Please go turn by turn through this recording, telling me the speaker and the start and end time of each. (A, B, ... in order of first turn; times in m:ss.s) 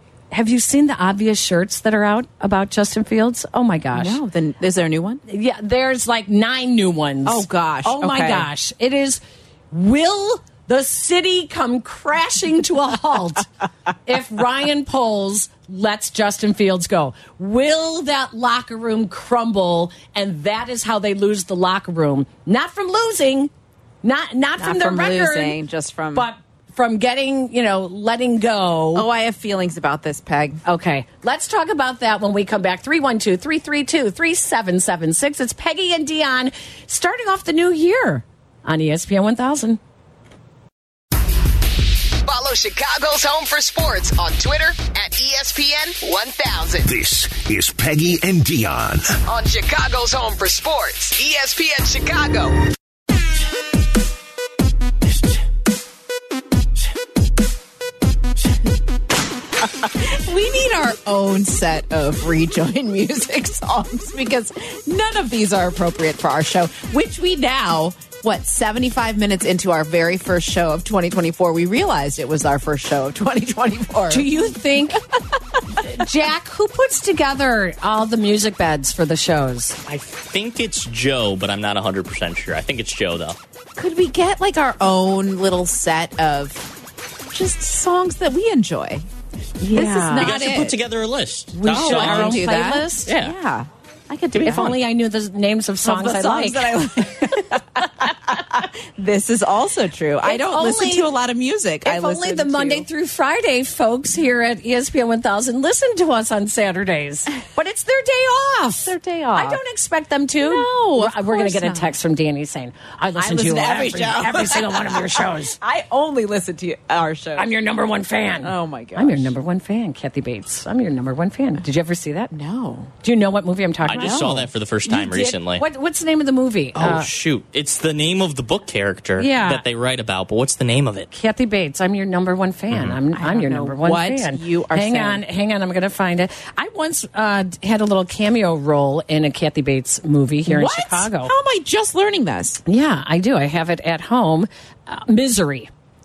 0:00.3-0:04.2 A
0:03.9-0:05.2 B
0:05.3-0:13.5 A
0:07.2-0:08.5 B
0:14.0-0:23.5 A
0:24.0-0:25.6 A
0:24.6-0:26.3 B
0:26.1-0:29.0 A
0:28.9-0:30.6 B
0:30.6-0:39.8 A
0:42.2-0:46.9 C
0:46.8-0:49.2 D
0:49.3-0:52.5 C
0:59.8-1:15.0 B
1:14.1-1:15.0 A
1:15.8-1:19.8 A
1:19.8-1:23.4 E
1:23.8-1:26.7 B
1:27.3-1:29.0 B
1:29.6-1:30.4 A
1:29.7-1:30.8 B
1:30.1-1:32.5 E
1:31.5-1:34.8 B
1:31.6-1:33.1 A
1:33.0-1:33.4 E
1:34.3-1:34.8 E
1:34.4-1:36.7 A
1:35.8-1:42.9 B
1:40.2-1:41.1 A
1:41.8-1:55.6 A
1:48.8-1:49.6 B
1:50.4-1:51.9 B
1:53.2-1:57.5 B
1:57.4-2:02.3 A
1:58.4-1:59.3 B
2:02.3-2:02.9 B
2:03.0-2:07.1 A
2:03.8-2:05.6 E
2:03.9-2:04.5 B
2:06.7-2:11.1 E
2:09.2-2:09.6 A
2:11.1-2:21.3 A
2:12.7-2:13.0 E
2:13.1-2:15.2 B
2:20.4-2:22.6 B
2:22.6-2:25.7 A